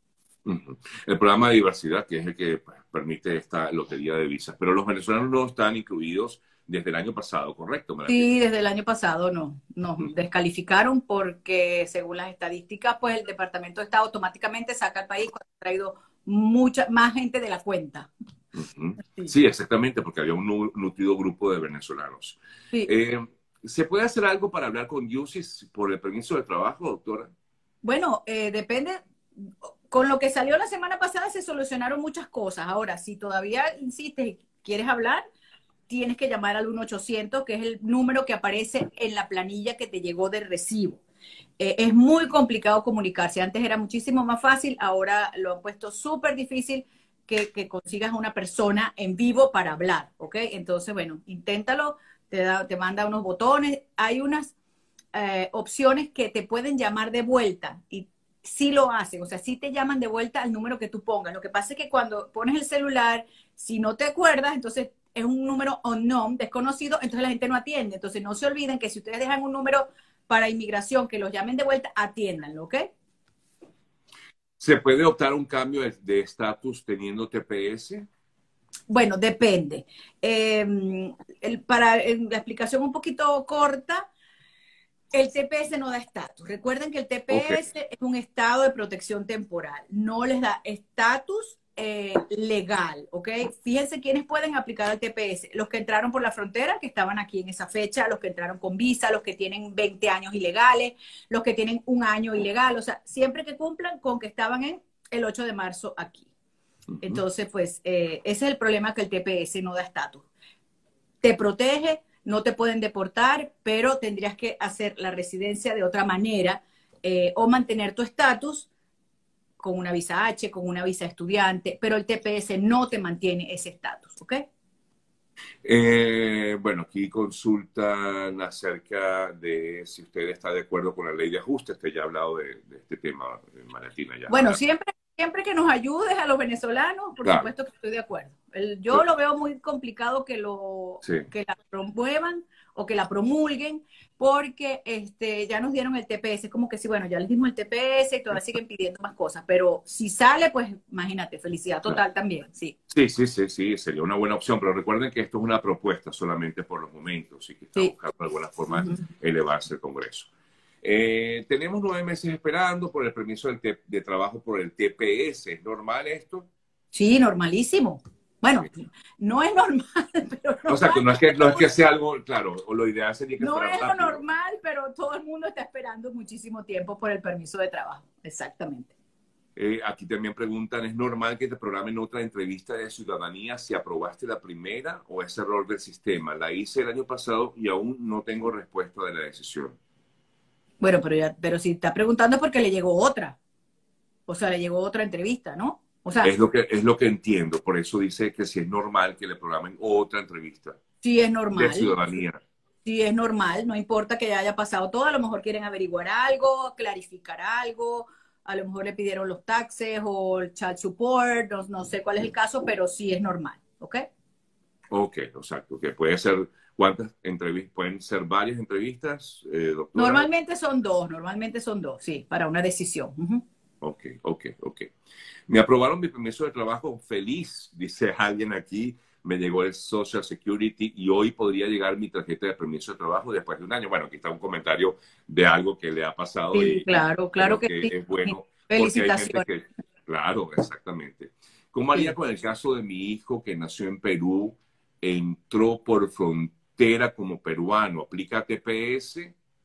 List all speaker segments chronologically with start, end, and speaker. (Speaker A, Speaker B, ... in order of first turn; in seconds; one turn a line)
Speaker A: 0.5-8.3
Speaker B: 8.1-18.1
Speaker A: 18.5-27.3
Speaker B: 27.8-35.2
Speaker B: 35.9-41.0
Speaker B: 41.6-54.5
Speaker B: 55.1-72.9
Speaker A: 74.6-78.1
Speaker B: 78.9-84.1
Speaker B: 85.1-106.3
Speaker A: 87.3-87.6
Speaker B: 107.0-110.3
Speaker B: 111.2-118.7
Speaker B: 119.6-124.4
Speaker A: 125.6-134.6
Speaker B: 134.3-152.8
Speaker A: 141.0-141.3
Speaker A: 152.9-160.3
Speaker B: 158.8-159.0
Speaker A: 160.8-166.5
Speaker B: 166.9-171.7
Speaker A: 170.7-174.2
Speaker B: 173.4-178.9
Speaker A: 179.6-189.8
Speaker B: 190.8-193.4
Speaker B: 194.3-196.3
Speaker A: 196.2-200.8
Speaker B: 201.0-201.9
Speaker A: 201.5-202.4
Speaker B: 202.8-214.1
Speaker A: 214.9-220.3
Speaker B: 219.9-223.4
Speaker A: 223.8-224.9
Speaker A: 225.5-249.3
Speaker B: 236.5-239.4